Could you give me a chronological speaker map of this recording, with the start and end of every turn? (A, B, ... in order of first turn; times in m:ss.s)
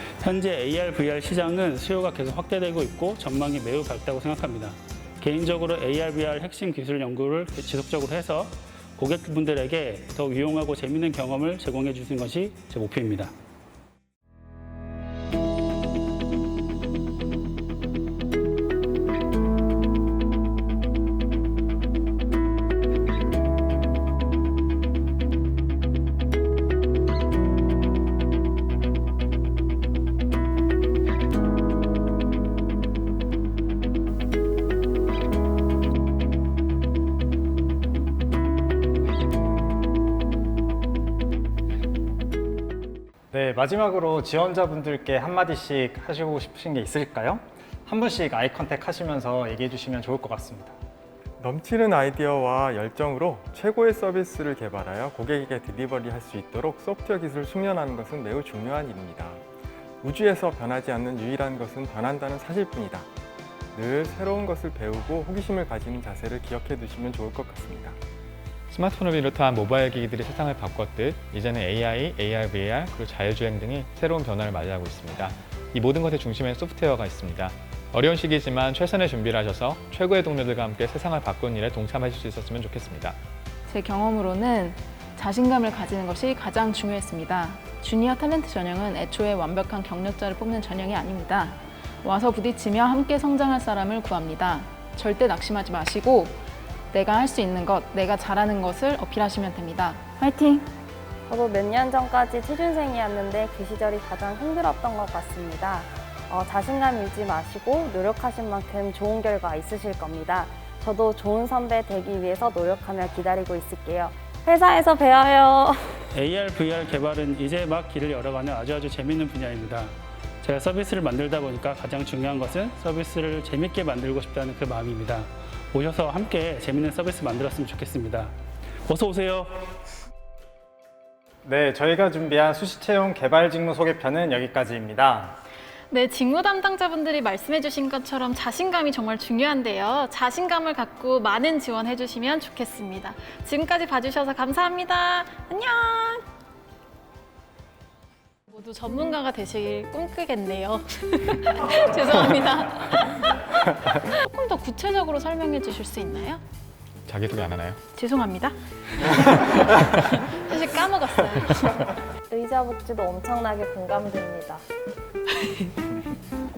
0:00.2-0:13.3 A
0:43.3-0:50.8 B
0:51.4-0:59.4 C
1:00.0-1:03.1 C
1:03.7-1:08.0 C
1:08.7-1:23.2 D
1:23.7-1:36.4 E
1:36.9-1:40.7 E
1:41.3-1:56.0 F
1:56.1-2:08.3 A
2:08.9-2:09.8 A
2:11.4-2:15.4 B
2:15.9-2:26.3 G
2:28.5-2:36.4 G
2:37.1-2:37.8 D
2:37.9-2:41.8 G
2:42.3-2:44.6 F
2:45.3-2:45.8 G